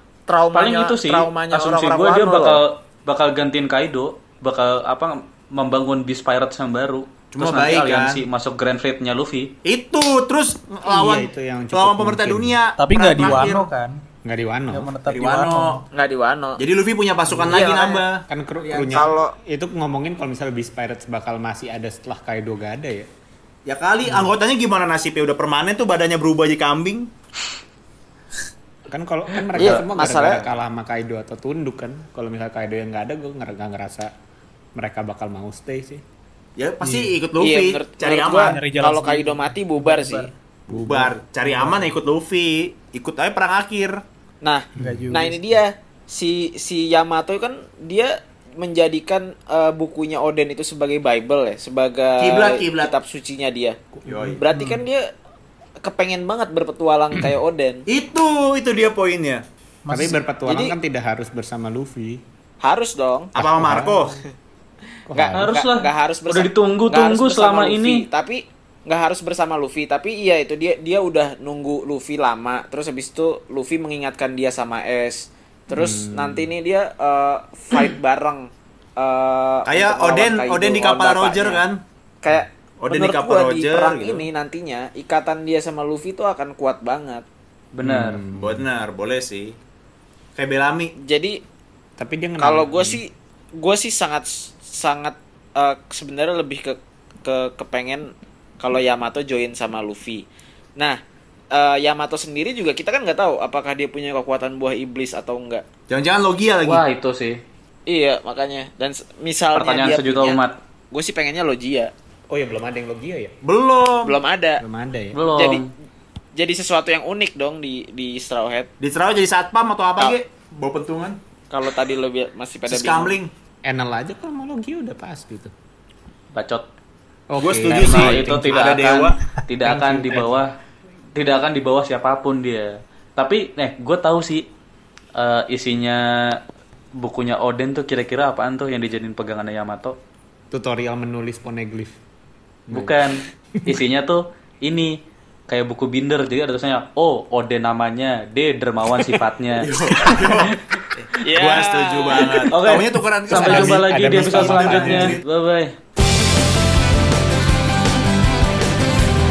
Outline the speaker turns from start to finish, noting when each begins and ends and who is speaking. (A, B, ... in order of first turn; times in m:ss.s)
0:00.3-0:02.6 A
0:00.5-0:09.5 B
0:07.3-0:08.2 C
0:09.6-0:13.7 C
0:10.8-0:12.6 D
0:12.8-0:14.0 E
0:14.2-0:14.9 D
0:14.7-0:15.8 E
0:15.1-0:15.8 C
0:15.9-0:16.6 A
0:16.6-0:19.1 C
0:17.3-0:17.6 D
0:17.4-0:18.0 A
0:18.3-0:23.1 D
0:18.9-0:19.3 A
0:23.6-0:27.1 C
0:24.0-0:24.3 D
0:28.9-0:34.1 D
0:29.5-0:30.5 A
0:34.7-0:36.0 D
0:36.6-0:38.6 C
0:36.8-0:37.2 E
0:37.4-0:40.3 A
0:38.3-0:40.3 E
0:40.7-0:44.0 C
0:40.7-0:41.2 D
0:41.6-0:41.9 E
0:44.4-0:53.8 A
0:44.7-0:45.5 E
0:52.2-0:52.9 C
0:53.9-0:54.4 D
0:54.1-0:54.4 C
0:54.4-0:55.1 A
0:54.5-0:54.8 E
0:55.8-0:57.8 A
0:57.9-0:59.4 C
0:59.8-1:00.2 E
0:59.9-1:02.2 D
1:00.5-1:00.8 A
1:02.6-1:03.4 A
1:03.3-1:04.2 D
1:03.4-1:04.2 C
1:05.1-1:05.6 D
1:05.1-1:21.6 A
1:05.3-1:08.0 B
1:15.7-1:16.5 D
1:19.6-1:21.8 C
1:22.2-1:27.2 A
1:22.8-1:24.3 C
1:27.7-1:28.2 B
1:27.8-1:28.6 D
1:28.3-1:29.6 C
1:30.4-1:30.9 C
1:31.0-1:31.4 A
1:32.0-1:33.0 D
1:32.4-1:40.2 A
1:41.5-1:45.6 A
1:45.9-1:46.8 C
1:46.6-1:47.4 B
1:47.9-1:50.4 A
1:49.6-1:50.6 B
1:50.9-1:51.9 A
1:52.3-1:53.3 D
1:53.4-1:54.2 C
1:54.0-1:54.6 A
1:54.6-1:55.2 D
1:55.1-1:55.7 B
1:55.3-1:55.6 A
1:56.4-1:58.7 A
1:58.8-2:01.2 C
2:01.5-2:03.2 A
2:02.7-2:03.3 C
2:03.6-2:05.5 D
2:06.3-2:06.6 B
2:07.3-2:08.8 D
2:07.4-2:09.2 C
2:07.6-2:10.5 B
2:09.6-2:10.4 D
2:11.1-2:14.4 B
2:15.2-2:16.4 B
2:16.9-2:19.9 B
2:20.5-2:22.0 D
2:22.7-2:23.8 D
2:22.7-2:30.6 B
2:29.6-2:35.2 C
2:31.2-2:32.5 A
2:32.5-2:35.7 B
2:33.3-2:35.2 D